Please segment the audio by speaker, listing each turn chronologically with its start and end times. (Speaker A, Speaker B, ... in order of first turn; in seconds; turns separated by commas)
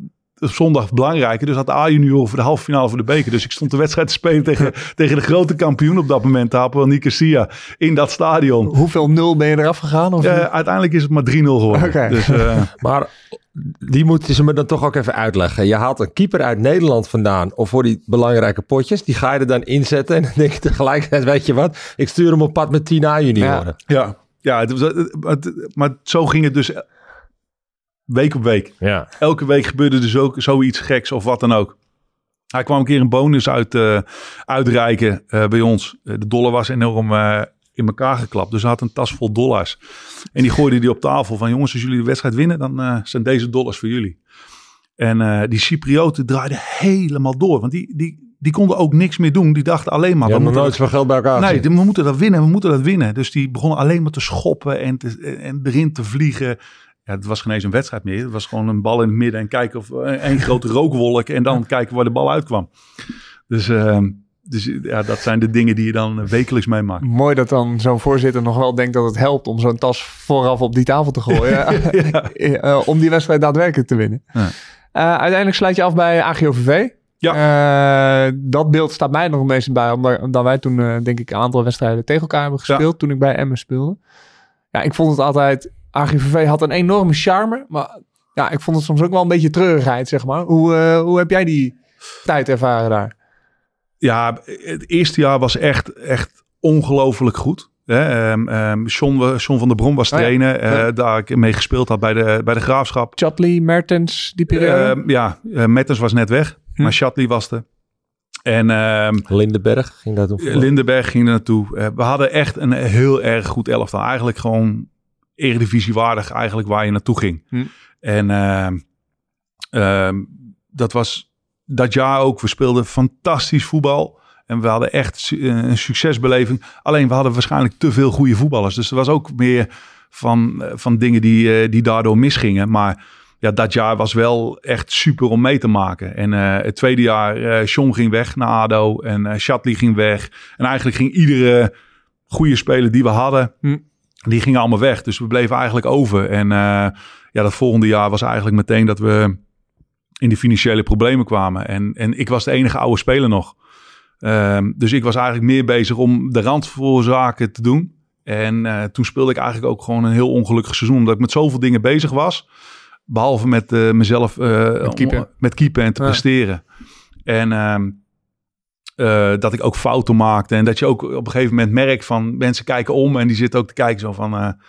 Speaker A: 0.4-8.8, Speaker B: 8.7-10.5, Speaker A: 10.2-12.7, Speaker B: 11.7-12.7, Speaker C: 12.8-23.8, Speaker B: 23.4-23.7, Speaker A: 23.9-26.8, Speaker A: 28.1-31.8, Speaker C: 28.8-29.1, Speaker A: 32.5-39.8, Speaker A: 40.3-44.2, Speaker A: 45.0-50.8, Speaker C: 50.2-51.7, Speaker A: 51.4-62.7, Speaker A: 63.5-67.1, Speaker B: 67.0-74.2, Speaker A: 71.3-72.3, Speaker B: 74.9-84.0, Speaker B: 84.7-93.1, Speaker A: 94.0-103.2, Speaker B: 100.1-100.9, Speaker B: 103.2-105.0, Speaker A: 104.5-107.6, Speaker A: 108.5-109.3, Speaker C: 109.3-110.7, Speaker A: 110.4-118.8, Speaker A: 119.7-141.7, Speaker A: 142.3-143.6, Speaker A: 144.3-149.4, Speaker A: 150.2-153.5, Speaker A: 154.2-162.4, Speaker A: 163.1-166.6, Speaker B: 164.8-165.2, Speaker A: 167.3-168.0, Speaker A: 169.0-174.6